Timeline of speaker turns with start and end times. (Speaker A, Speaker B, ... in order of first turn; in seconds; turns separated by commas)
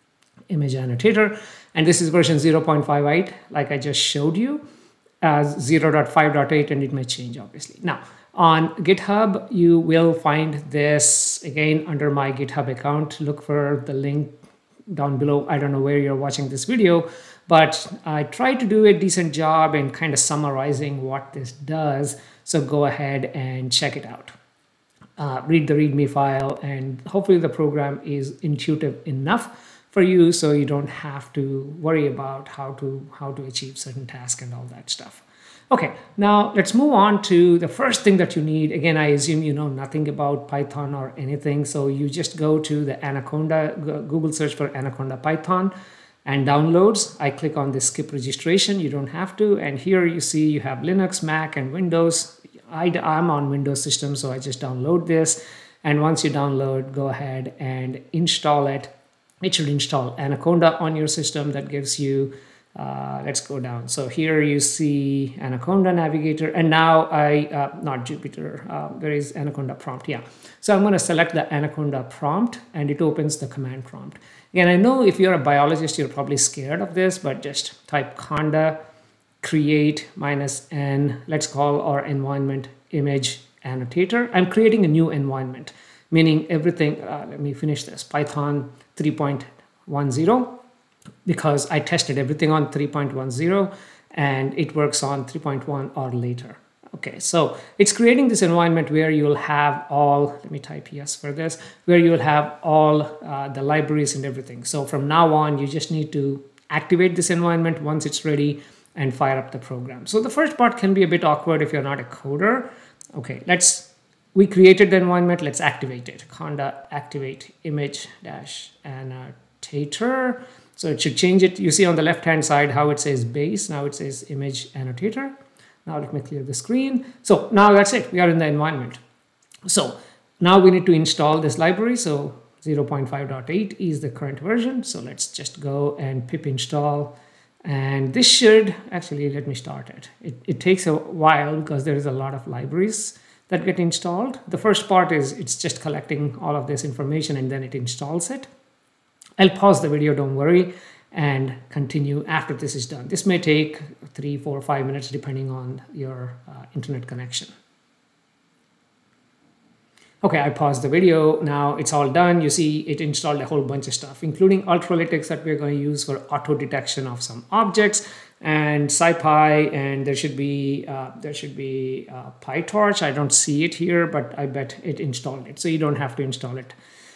Speaker A: 0.5-4.6, Speaker A: 5.2-14.3, Speaker A: 14.9-24.3, Speaker A: 25.2-45.7, Speaker A: 46.2-58.9, Speaker A: 59.4-78.8, Speaker A: 79.4-90.5, Speaker A: 91.2-125.3, Speaker A: 125.8-129.0, Speaker A: 129.7-137.1, Speaker A: 137.6-148.5, Speaker A: 149.4-157.5, Speaker A: 160.2-176.8